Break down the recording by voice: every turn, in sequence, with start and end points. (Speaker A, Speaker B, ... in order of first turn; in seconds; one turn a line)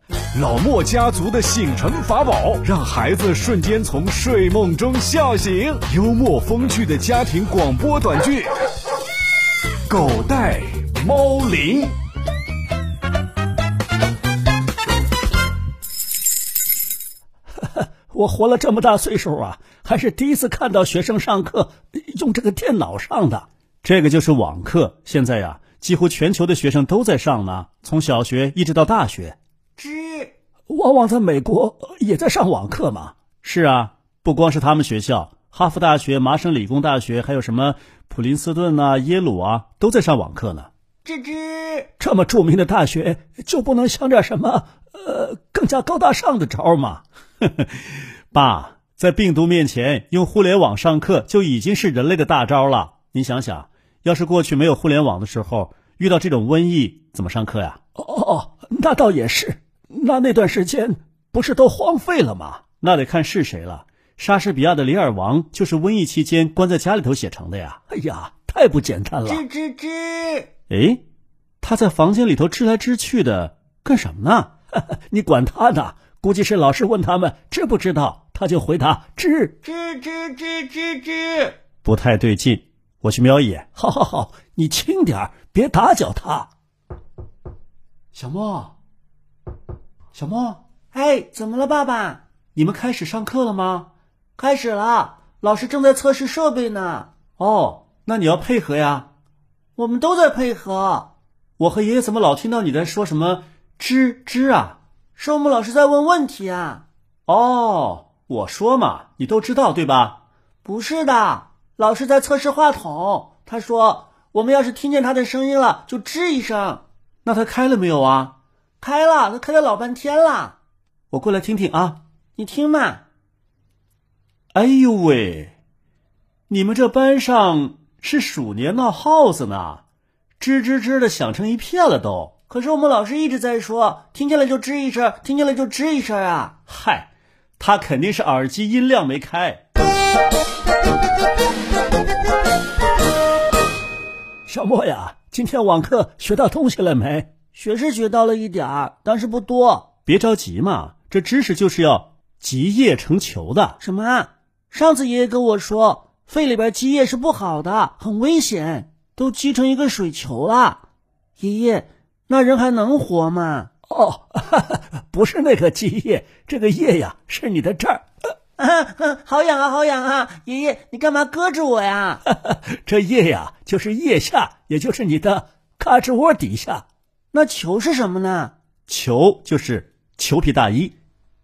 Speaker A: 0.3-8.5
Speaker A: 9.9-11.9
Speaker B: 17.6-23.4
Speaker C: 23.8-29.4
Speaker D: 29.8-30.3
Speaker B: 30.7-33.1
Speaker C: 33.4-40.7
Speaker D: 41.0-41.9
Speaker B: 42.0-47.0
Speaker C: 47.4-47.8
Speaker C: 48.3-57.8
Speaker B: 58.0-62.6
Speaker C: 62.8-67.8
Speaker B: 67.9-69.4
Speaker D: 69.2-70.5
Speaker C: 70.7-71.0
Speaker C: 71.6-74.5
Speaker B: 74.8-79.5
Speaker D: 79.6-81.6
Speaker C: 81.8-83.7
Speaker B: 83.7-86.5
Speaker C: 88.1-88.7
Speaker C: 90.1-90.6
Speaker D: 90.9-92.2
Speaker C: 92.5-93.9
Speaker D: 94.4-97.1
Speaker C: 97.4-99.1
Speaker D: 99.8-101.1
Speaker C: 101.6-104.8
Speaker D: 105.2-106.8
Speaker C: 107.3-110.2
Speaker D: 110.6-116.8
Speaker C: 117.2-118.3
Speaker D: 118.8-120.5
Speaker C: 121.1-122.0
Speaker D: 122.3-123.0
Speaker C: 124.5-125.5
Speaker C: 126.5-129.8
Speaker C: 130.4-132.4
Speaker D: 132.5-136.5
Speaker C: 136.7-139.6
Speaker B: 144.5-147.3
Speaker D: 147.5-149.9
Speaker C: 150.1-153.8
Speaker D: 153.8-160.8
Speaker D: 161.4-163.7
Speaker B: 163.9-168.0
Speaker D: 168.6-172.2
Speaker B: 172.3-176.8
Speaker D: 177.3-178.5
Speaker C: 178.9-180.9